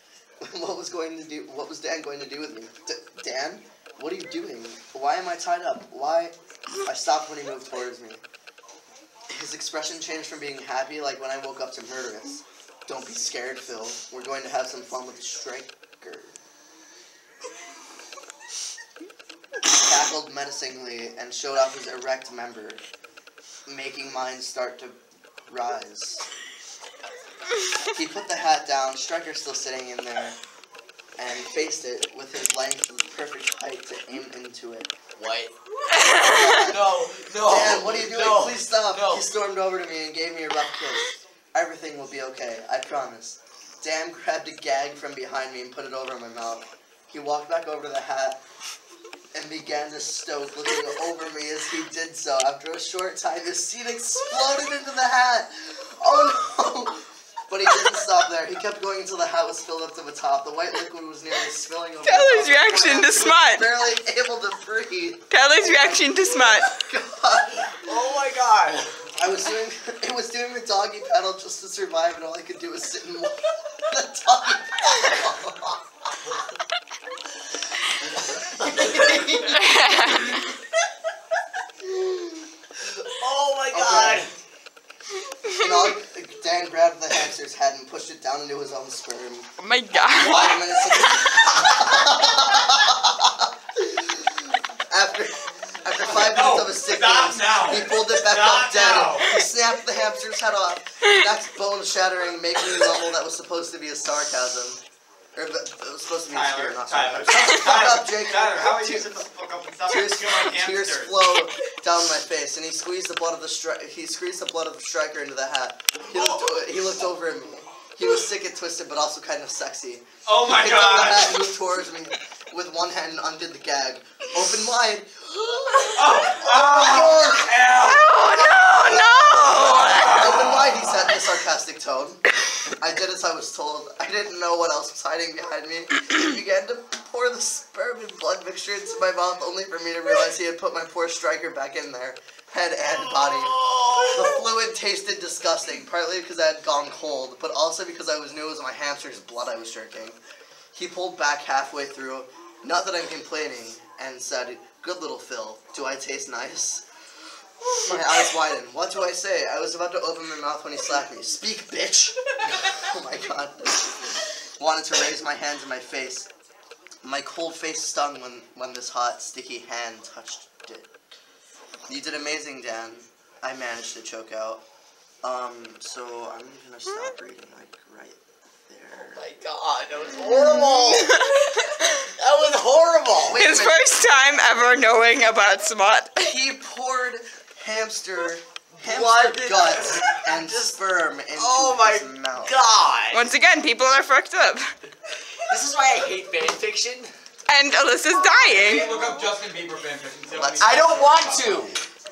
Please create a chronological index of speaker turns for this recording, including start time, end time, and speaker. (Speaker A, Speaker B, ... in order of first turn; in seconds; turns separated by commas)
Speaker A: 0.4-8.2, Speaker A: 9.3-16.4, Speaker A: 19.7-22.8, Speaker A: 23.7-25.0, Speaker A: 25.5-26.3, Speaker A: 27.9-30.4, Speaker A: 31.2-34.9, Speaker B: 35.2-35.5, Speaker B: 36.0-39.2, Speaker A: 36.2-48.4, Speaker A: 49.3-67.8, Speaker C: 62.0-63.7, Speaker C: 65.3-66.8, Speaker B: 67.8-68.9, Speaker A: 69.1-75.8, Speaker B: 78.3-79.4, Speaker A: 78.5-79.6, Speaker C: 79.5-80.5, Speaker B: 83.0-84.3, Speaker A: 83.7-84.3, Speaker A: 85.6-94.2, Speaker C: 89.6-91.1, Speaker A: 94.9-104.8, Speaker D: 96.1-99.3, Speaker A: 105.3-109.1, Speaker D: 106.3-111.2, Speaker A: 109.9-127.5, Speaker D: 116.1-116.4, Speaker D: 120.2-121.4, Speaker D: 126.0-128.1, Speaker C: 127.7-130.3, Speaker D: 129.5-130.8, Speaker A: 129.7-132.2, Speaker A: 132.8-150.2, Speaker B: 142.9-144.4, Speaker A: 150.7-156.8, Speaker A: 157.7-166.3, Speaker A: 167.0-170.9, Speaker A: 171.9-174.6, Speaker A: 175.2-179.2, Speaker B: 178.9-181.6, Speaker B: 182.2-183.4, Speaker A: 183.2-183.8, Speaker C: 183.3-186.3, Speaker A: 186.2-192.6, Speaker B: 188.8-190.6, Speaker B: 191.4-193.3, Speaker C: 193.1-194.7, Speaker B: 195.5-197.1, Speaker C: 197.5-198.9, Speaker D: 198.4-201.7, Speaker B: 200.3-201.8